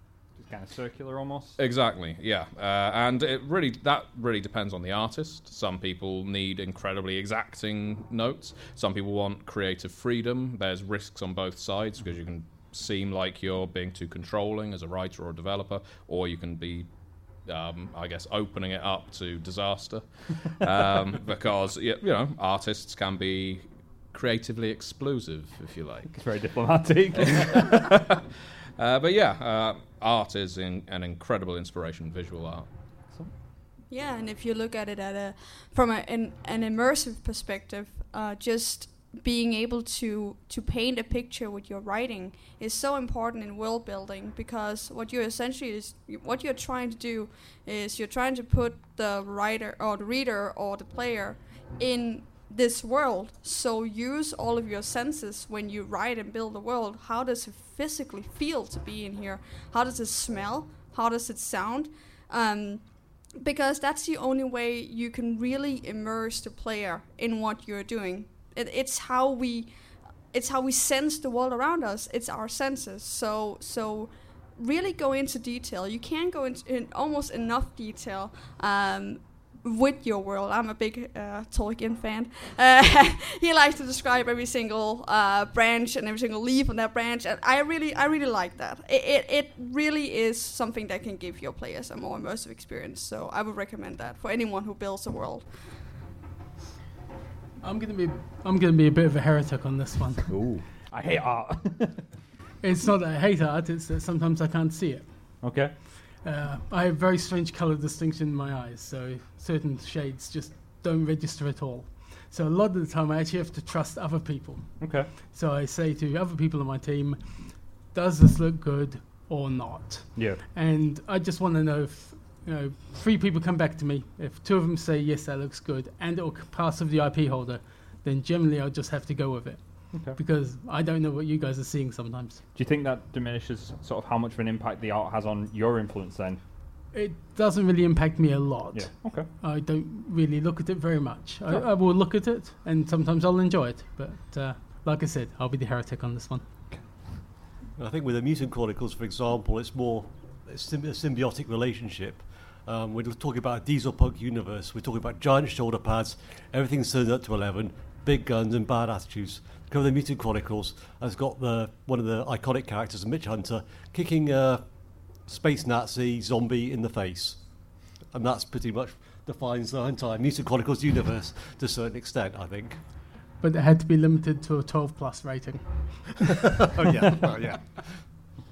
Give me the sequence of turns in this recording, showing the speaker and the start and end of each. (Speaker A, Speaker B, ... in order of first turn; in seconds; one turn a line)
Speaker A: 0.3-1.6
Speaker B: 1.6-16.9
Speaker B: 17.4-26.1
Speaker A: 26.1-27.8
Speaker B: 27.2-28.0
Speaker B: 28.8-32.7
Speaker C: 33.9-69.7
Speaker C: 70.3-95.7
Speaker D: 97.6-100.3
Speaker A: 100.3-102.0
Speaker D: 102.6-132.4
Speaker A: 105.4-105.8
Speaker A: 114.8-115.2
Speaker A: 120.1-120.4
Speaker A: 129.9-130.2
Speaker A: 132.5-136.4
Speaker D: 136.9-146.5
Speaker A: 138.7-139.3
Speaker A: 146.7-147.1
Speaker E: 147.8-172.8
Speaker D: 173.4-176.3
Speaker E: 176.7-178.0